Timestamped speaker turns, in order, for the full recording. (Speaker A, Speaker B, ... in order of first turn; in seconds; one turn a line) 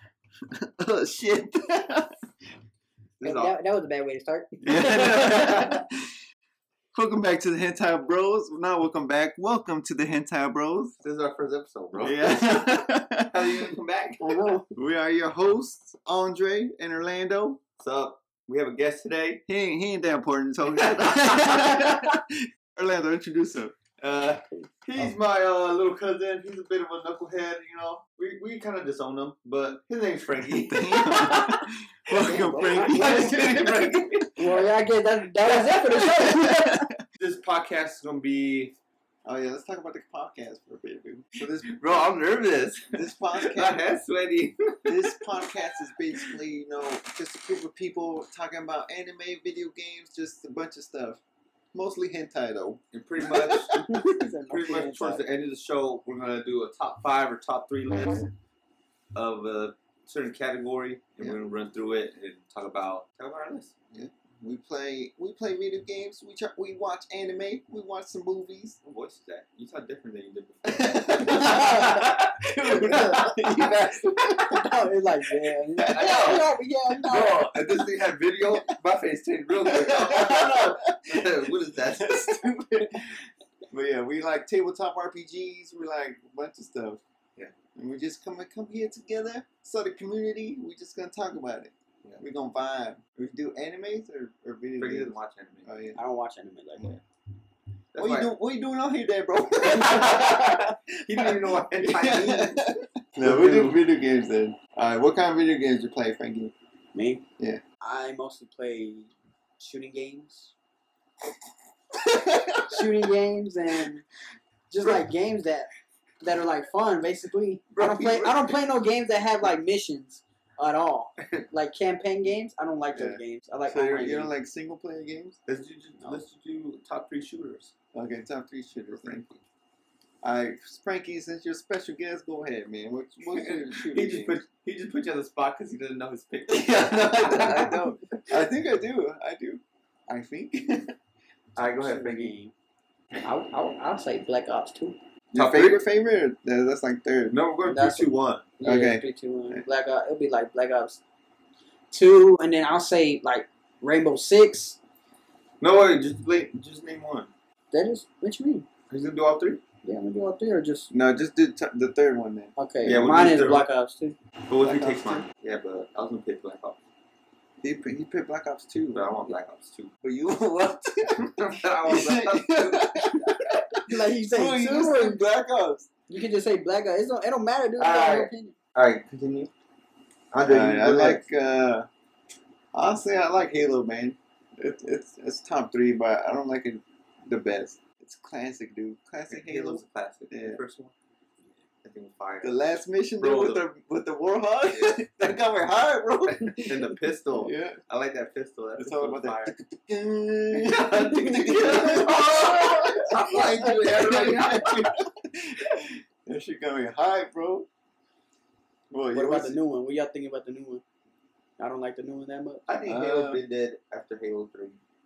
Speaker A: 0.5-2.1
Speaker B: 3.2-3.5
Speaker C: 3.2-5.5
Speaker A: 4.6-5.8
Speaker B: 5.1-5.7
Speaker A: 6.9-11.0
Speaker B: 11.0-14.6
Speaker A: 12.0-13.8
Speaker C: 14.2-14.7
Speaker A: 14.7-17.6
Speaker B: 17.8-19.4
Speaker A: 19.5-23.8
Speaker B: 20.8-21.9
Speaker B: 24.0-31.6
Speaker A: 30.5-33.9
Speaker C: 31.2-31.5
Speaker B: 32.1-34.6
Speaker C: 32.2-33.6
Speaker C: 34.4-36.9
Speaker A: 35.5-37.0
Speaker B: 37.2-38.8
Speaker A: 39.2-42.0
Speaker B: 41.6-45.5
Speaker A: 42.9-43.8
Speaker A: 44.8-51.2
Speaker A: 51.7-53.9
Speaker B: 52.9-53.9
Speaker C: 53.8-55.2
Speaker B: 54.5-58.3
Speaker B: 59.1-63.7
Speaker A: 63.9-68.8
Speaker B: 68.8-74.5
Speaker A: 70.7-74.7
Speaker C: 71.3-72.1
Speaker C: 72.7-73.3
Speaker C: 74.5-77.5
Speaker A: 75.8-76.4
Speaker B: 75.8-76.5
Speaker B: 77.0-82.4
Speaker A: 77.1-77.8
Speaker A: 79.6-87.0
Speaker A: 87.7-96.0
Speaker B: 94.8-95.7
Speaker C: 96.0-96.9
Speaker B: 97.9-98.3
Speaker A: 98.0-106.5
Speaker B: 99.6-102.6
Speaker B: 103.2-103.8
Speaker C: 106.9-107.2
Speaker C: 107.8-110.5
Speaker A: 111.9-112.9
Speaker C: 112.7-114.0
Speaker C: 114.7-115.7
Speaker C: 116.2-124.3
Speaker B: 117.7-118.6
Speaker A: 122.9-125.4
Speaker B: 125.5-127.7
Speaker A: 127.9-129.2
Speaker B: 128.9-129.4
Speaker A: 130.2-134.4
Speaker B: 133.3-138.4
Speaker A: 136.5-140.9
Speaker B: 141.6-142.3
Speaker C: 141.6-142.5
Speaker C: 143.2-145.0
Speaker A: 145.3-147.4
Speaker B: 145.3-145.8
Speaker B: 147.3-148.5
Speaker C: 147.7-151.0
Speaker A: 148.6-149.6
Speaker C: 151.9-154.8
Speaker B: 155.6-157.3
Speaker C: 157.7-158.7
Speaker B: 158.9-159.6
Speaker C: 159.8-160.9
Speaker A: 160.9-162.5
Speaker C: 162.6-164.2
Speaker B: 162.8-163.7
Speaker B: 164.5-166.8
Speaker A: 164.6-165.2
Speaker A: 167.6-169.0
Speaker B: 168.9-169.9
Speaker A: 170.0-175.9
Speaker B: 171.2-173.5
Speaker C: 173.9-175.2
Speaker C: 176.1-178.6
Speaker B: 177.8-179.5
Speaker B: 180.3-181.2
Speaker A: 180.4-181.9
Speaker A: 182.7-190.6
Speaker B: 189.3-190.9
Speaker B: 191.8-192.5
Speaker A: 192.4-197.8
Speaker B: 193.2-193.7
Speaker B: 196.4-199.5
Speaker A: 198.8-207.7
Speaker B: 200.5-204.9
Speaker A: 208.9-209.6
Speaker C: 209.1-210.8
Speaker C: 211.6-212.6
Speaker B: 212.7-214.8
Speaker A: 212.8-213.4